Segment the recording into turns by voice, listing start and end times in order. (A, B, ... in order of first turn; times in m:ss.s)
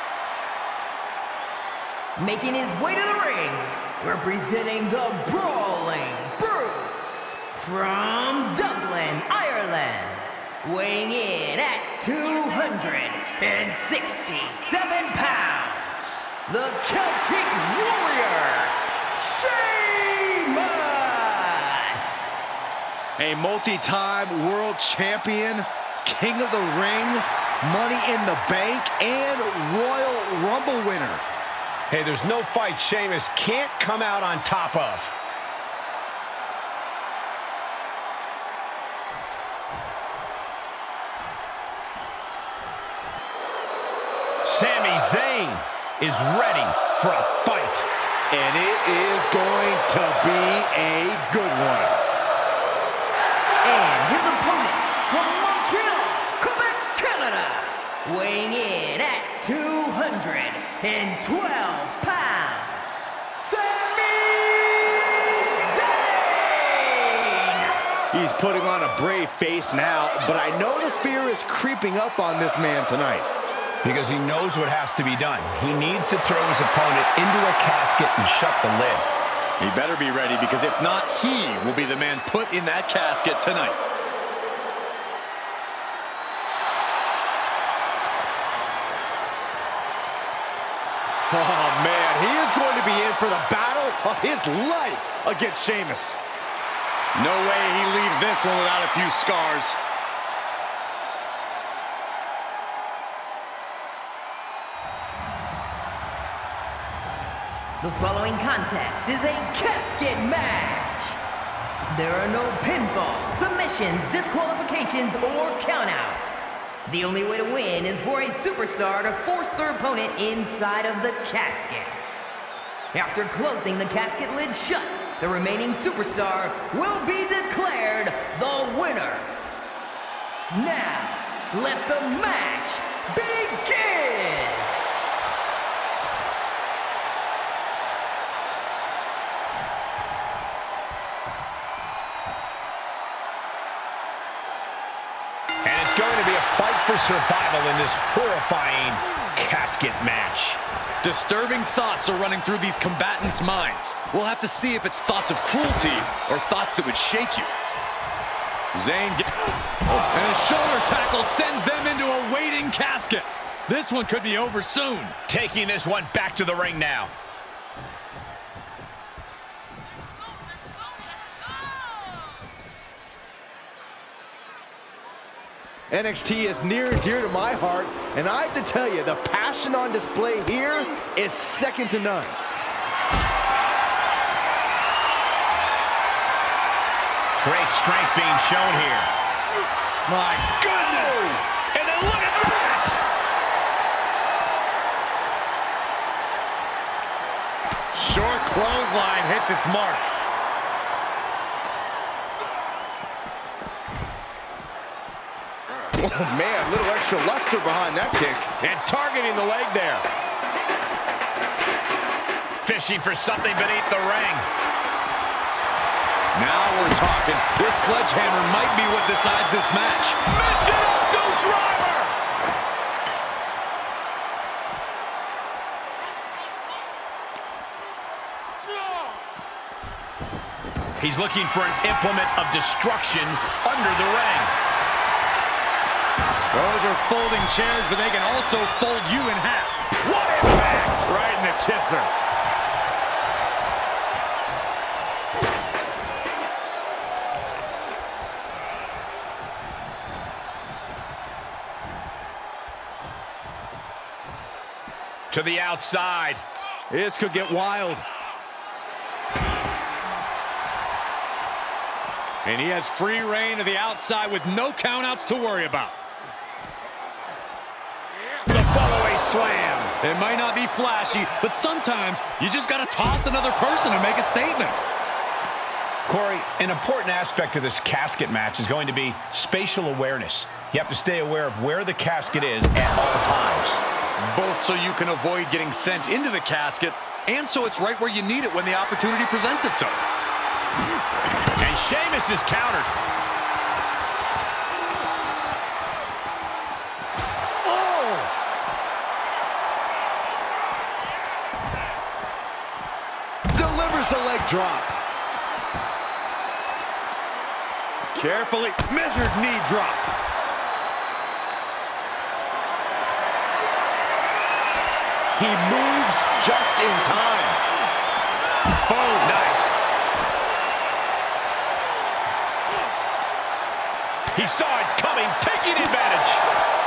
0:02.2-0:22.3 A
0:23.2-0:31.2 B
0:31.9-0:35.1 C
0:44.4-0:47.9 C
0:48.3-0:52.0 B
0:53.6-1:07.8 A
1:08.1-1:13.3 B
1:13.8-1:19.1 C
1:19.6-1:23.8 D
1:31.3-1:36.2 B
1:37.1-1:39.8 D
1:47.8-1:51.2 A
1:51.9-2:02.0 A
2:02.9-2:09.4 A
2:10.5-2:14.8 A
2:25.6-2:30.6 C
2:31.0-2:37.5 D
2:38.7-2:39.2 D
2:39.9-2:45.2 D
2:45.3-2:47.1 C
2:55.9-3:02.4 B
3:07.4-3:09.1 C
3:10.0-3:11.4 D
3:11.2-3:13.0 C
3:17.9-3:20.1 D
3:25.9-3:29.7 B
3:28.7-3:29.9 C
3:32.6-3:34.5 C
3:36.3-3:40.2 D
3:40.2-3:42.1 C
3:51.0-3:54.5 C
3:56.5-3:59.9 D
4:00.0-4:01.0 C
4:01.0-4:02.1 D
4:15.3-4:16.4 C
4:16.9-4:18.0 B
4:22.4-4:26.0 D
4:28.5-4:29.9 C
4:30.0-4:34.8 D
4:36.0-4:43.8 C
4:44.2-4:50.1 D
4:51.6-4:52.9 C
4:57.6-4:58.3 B
5:03.5-5:04.9 B
5:08.1-5:10.1 D
5:15.4-5:17.6 B
5:18.8-5:19.8 C
5:24.3-5:26.4 C